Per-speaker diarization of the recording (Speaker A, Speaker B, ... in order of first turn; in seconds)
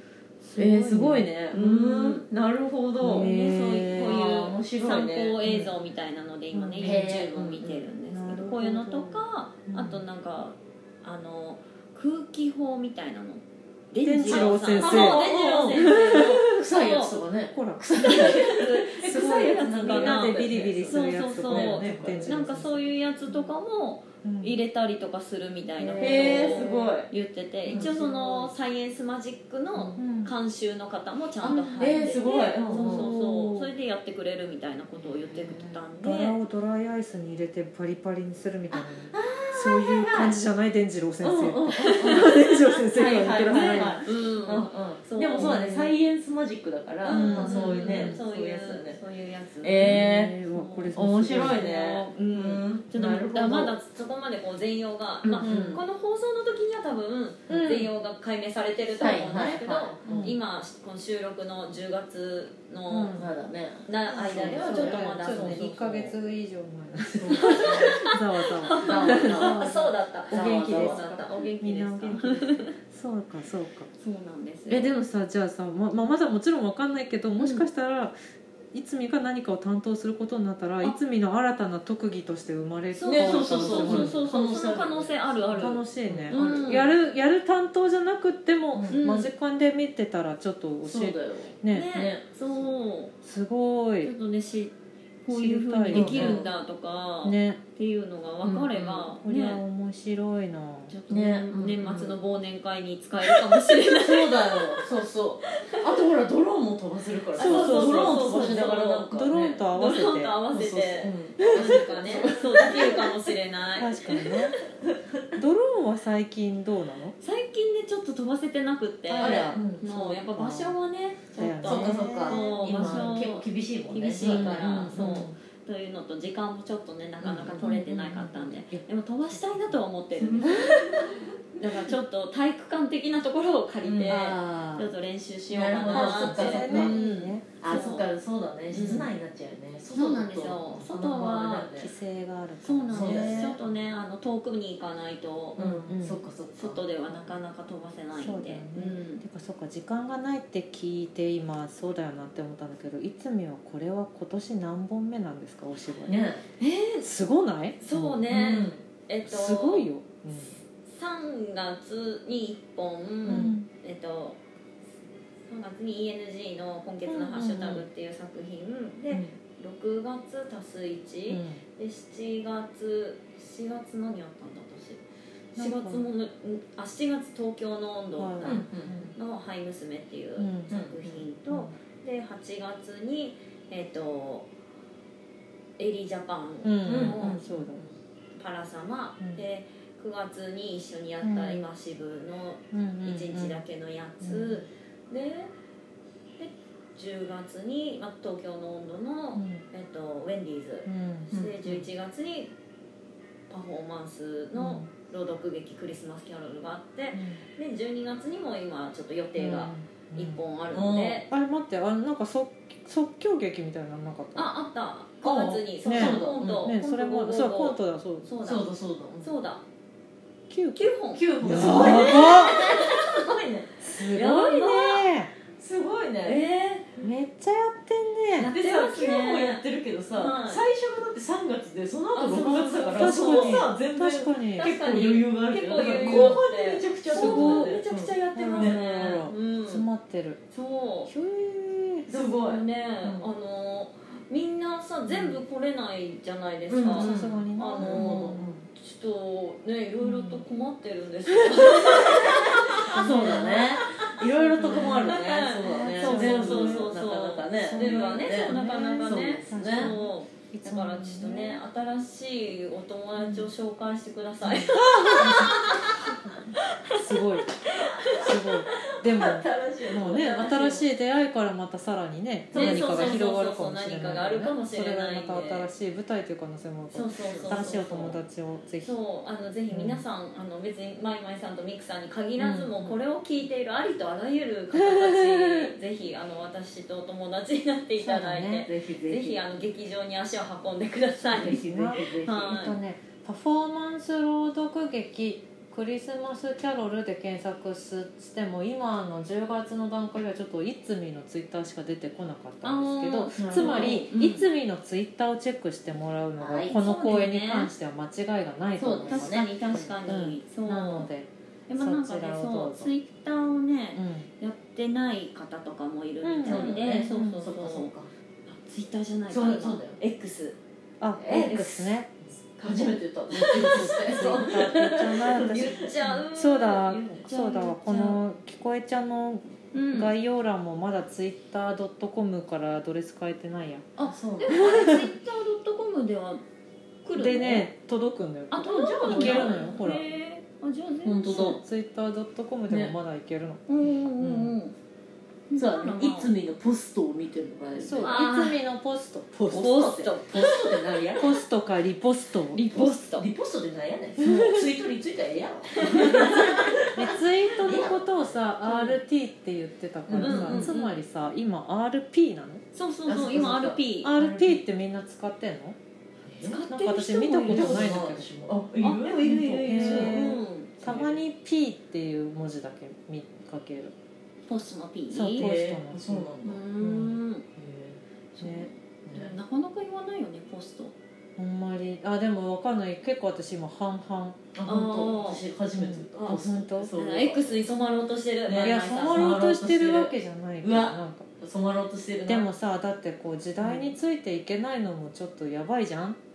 Speaker A: 0.4-1.3, 3.0-4.2, 5.4-5.7, 6.5-7.2, 8.0-10.0, 14.0-16.3, 17.5-18.4, 19.0-23.5, 24.2-24.6, 25.8-26.9, 27.7-28.0, 30.0-30.3, 31.4-33.7, 35.9-44.0, 47.1-48.2, 49.8-51.6, 55.4-55.8, 57.5-57.9, 59.1-60.4, 62.9-63.3, 64.1-73.9, 74.7-78.2, 78.7-84.2, 85.6-91.9, 93.2-94.1, 95.3-96.5, 97.2-97.6, 99.1-100.9, 107.4-110.4, 111.4-111.8, 113.8-114.6, 115.3-117.2, 119.2-119.6, 120.2-120.8, 121.4-123.3, 124.2-125.3, 127.5-129.8, 130.4-130.8, 134.1-134.9, 135.9-138.0, 138.7-139.1, 141.8-143.6, 145.6-146.2, 148.1-156.2, 157.0-157.9, 159.3-160.5, 163.3-163.7, 167.1-167.8, 171.3-171.6, 175.6-176.1, 178.2-179.1, 180.4-181.7, 186.6-187.8, 191.2-191.7, 192.7-193.6, 194.2-194.6, 199.3-199.6, 200.8-201.8, 204.6-204.9, 207.1-207.4, 209.4-210.4, 211.2-214.5, 215.8-218.4, 220.5-222.7, 223.8-225.4, 227.0-228.5, 232.9-234.8, 235.8-236.5, 237.1-237.8, 238.3-240.4, 241.1-242.1, 245.1-245.4, 246.9-248.6, 250.0-250.4, 252.7-261.6, 263.2-263.5, 264.4-267.6, 268.1-279.0, 279.7-280.0, 284.9-285.1, 288.0-288.7, 291.3-309.5, 310.1-312.9, 313.9-314.3, 316.2-317.4, 321.0-322.1, 323.5-333.9, 334.5-335.1, 337.1-340.0, 341.3-343.6, 344.2-344.5, 347.8-349.6, 351.2-352.7, 354.2-354.6, 355.9-362.6, 364.0-365.8, 366.7-368.3, 369.6-373.9, 375.1-377.2, 378.4-378.7, 381.4-384.5, 385.8-386.9, 388.6-391.3, 392.3-396.2
Speaker B: 0.6-5.4, 6.8-7.8, 14.2-22.6, 26.0-27.1, 27.7-28.5, 29.8-30.0, 31.8-33.1, 35.1-35.8, 38.7-40.5, 41.2-49.0, 49.6-50.4, 50.9-53.8, 55.2-55.8, 59.0-60.3, 63.1-66.2, 67.1-68.0, 68.8-69.7, 70.3-71.3, 83.0-86.8, 88.7-89.0, 90.8-92.7, 95.9-96.5, 98.4-99.1, 101.1-102.2, 103.9-109.6, 110.5-113.2, 114.9-115.2, 119.1-120.3, 121.7-125.3, 127.2-127.8, 130.2-131.8, 133.8-134.7, 135.5-141.9, 142.9-143.6, 145.6-146.8, 156.1-156.4, 157.9-158.8, 163.3-163.6, 169.1-169.3, 178.4-179.0, 180.7-180.9, 186.9-187.6, 201.3-201.6, 210.7-211.2, 215.2-216.7, 218.4-219.3, 221.1-223.8, 225.5-226.4, 228.4-239.3, 242.1-243.3, 246.7-248.6, 251.7-260.0, 267.7-270.9, 272.5-273.3, 277.1-277.9, 282.4-283.0, 288.6-289.4, 291.3-292.6, 303.4-304.1, 306.4-306.9, 308.8-309.9, 316.4-318.1, 319.3-320.0, 321.2-322.0, 322.6-325.9, 334.0-334.7, 338.6-339.8, 341.0-341.6, 342.7-343.0, 345.6-348.2, 349.5-351.4, 352.7-358.3, 360.1-360.8, 363.1-364.6, 366.3-366.7, 367.4-371.2, 375.4-376.7, 377.6-378.0, 379.1-379.4, 384.5-387.6, 388.5-392.5, 393.6-393.9
Speaker C: 1.5-2.3, 3.0-17.2, 18.1-36.4, 42.0-42.5, 43.5-46.0, 47.0-63.2, 63.9-65.8, 67.3-72.8, 73.9-74.9, 77.4-77.7, 82.9-86.9, 88.9-89.3, 91.7-93.2, 94.0-99.6, 100.9-104.9, 105.5-106.0, 107.3-109.1, 109.7-114.4, 117.2-138.1, 138.7-139.1, 139.9-141.7, 142.6-145.6, 146.6-149.2, 156.6-157.1, 157.8-159.9, 160.9-164.4, 165.4-175.0, 175.5-184.5, 185.8-187.7, 188.3-195.5, 196.4-202.5, 203.5-211.3, 214.3-218.7, 219.2-219.6, 220.8-223.2, 224.0-225.1, 226.2-227.0, 228.4-229.6, 230.2-230.6, 232.1-233.7, 234.5-239.9, 240.5-241.1, 242.1-253.9, 254.5-268.3, 272.5-275.7, 276.9-278.2, 278.8-292.8, 302.6-304.5, 306.8-307.7, 309.1-311.1, 311.7-317.9, 318.5-320.6, 321.3-321.7, 322.6-324.0, 325.4-328.2, 329.7-330.1, 334.0-336.4, 337.0-337.7, 338.5-341.6, 343.7-344.8, 345.5-346.3, 348.0-348.6, 349.5-350.7, 352.5-353.3, 355.8-356.7, 358.6-359.0, 360.1-360.9, 362.7-364.1, 366.4-368.0, 368.8-370.9, 374.5-375.5, 376.4-377.4, 378.3-380.9, 384.6-385.4, 386.9-389.4